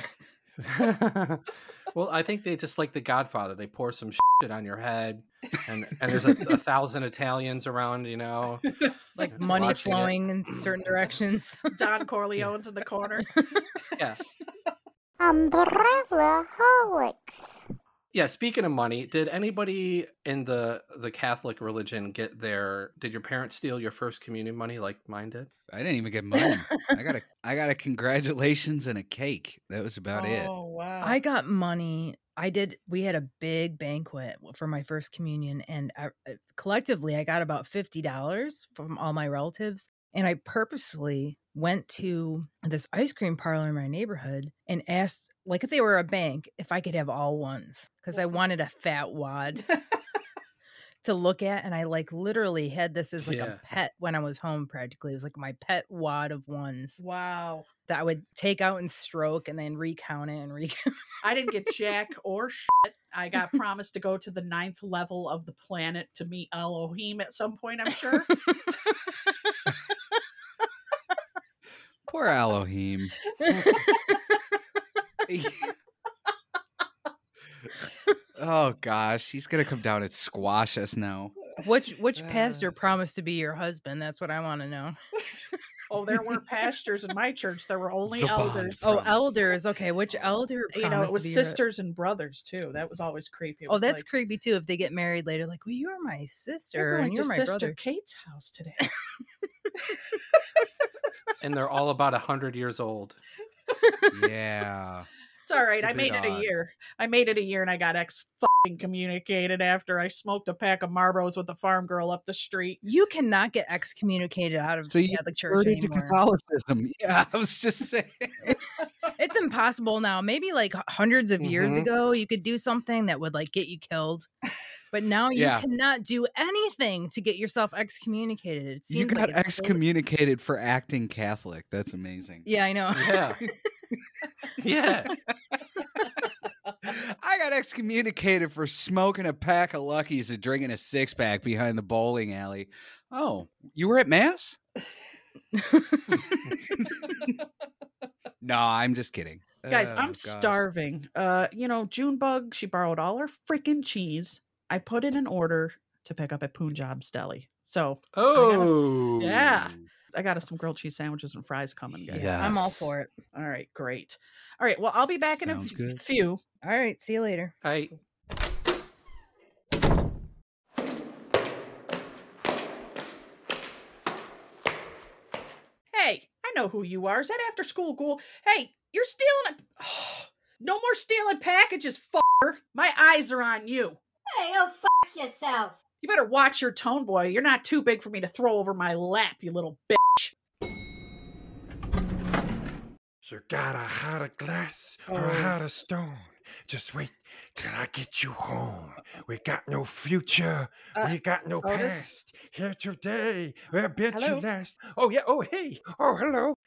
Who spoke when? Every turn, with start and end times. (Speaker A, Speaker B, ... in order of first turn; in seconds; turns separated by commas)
Speaker A: 0.6-8.7, Speaker B: 9.2-11.6, Speaker A: 9.3-10.7, Speaker C: 11.7-13.3, Speaker D: 15.2-17.4, Speaker A: 18.1-25.5, Speaker E: 25.7-30.5, Speaker B: 26.4-26.9, Speaker C: 30.1-31.2, Speaker B: 31.0-49.7, Speaker C: 48.1-48.4, Speaker B: 51.0-57.0, Speaker A: 53.2-53.6, Speaker C: 57.0-57.7, Speaker B: 57.9-60.8, Speaker C: 61.2-68.3, Speaker E: 72.1-73.2, Speaker E: 75.3-75.7, Speaker E: 78.4-81.3, Speaker B: 81.6-85.0, Speaker E: 82.2-82.6, Speaker C: 85.9-89.0, Speaker E: 88.1-89.3, Speaker B: 88.8-91.6, Speaker C: 90.7-94.0, Speaker B: 93.7-97.8, Speaker C: 96.8-98.8, Speaker A: 101.4-103.2, Speaker E: 104.1-105.1, Speaker C: 105.5-112.8, Speaker E: 105.7-106.5, Speaker B: 112.8-116.2, Speaker E: 114.9-118.6, Speaker B: 119.1-124.3, Speaker A: 121.4-121.9, Speaker B: 124.9-129.8, Speaker E: 125.3-125.7, Speaker E: 128.9-132.5, Speaker B: 132.5-133.4, Speaker A: 132.9-133.4, Speaker A: 134.6-135.1, Speaker E: 136.9-144.6, Speaker B: 145.5-146.1, Speaker E: 146.8-147.3, Speaker E: 148.4-150.6, Speaker C: 149.7-166.4, Speaker A: 158.2-159.5, Speaker A: 162.1-162.8, Speaker B: 162.1-163.1, Speaker E: 165.4-166.0, Speaker B: 166.6-167.5, Speaker A: 167.6-167.9, Speaker C: 175.9-184.0, Speaker D: 184.3-185.7, Speaker C: 186.0-190.3, Speaker F: 193.3-198.6, Speaker C: 195.1-195.6, Speaker F: 199.4-206.5, Speaker C: 201.0-202.1, Speaker C: 204.1-204.5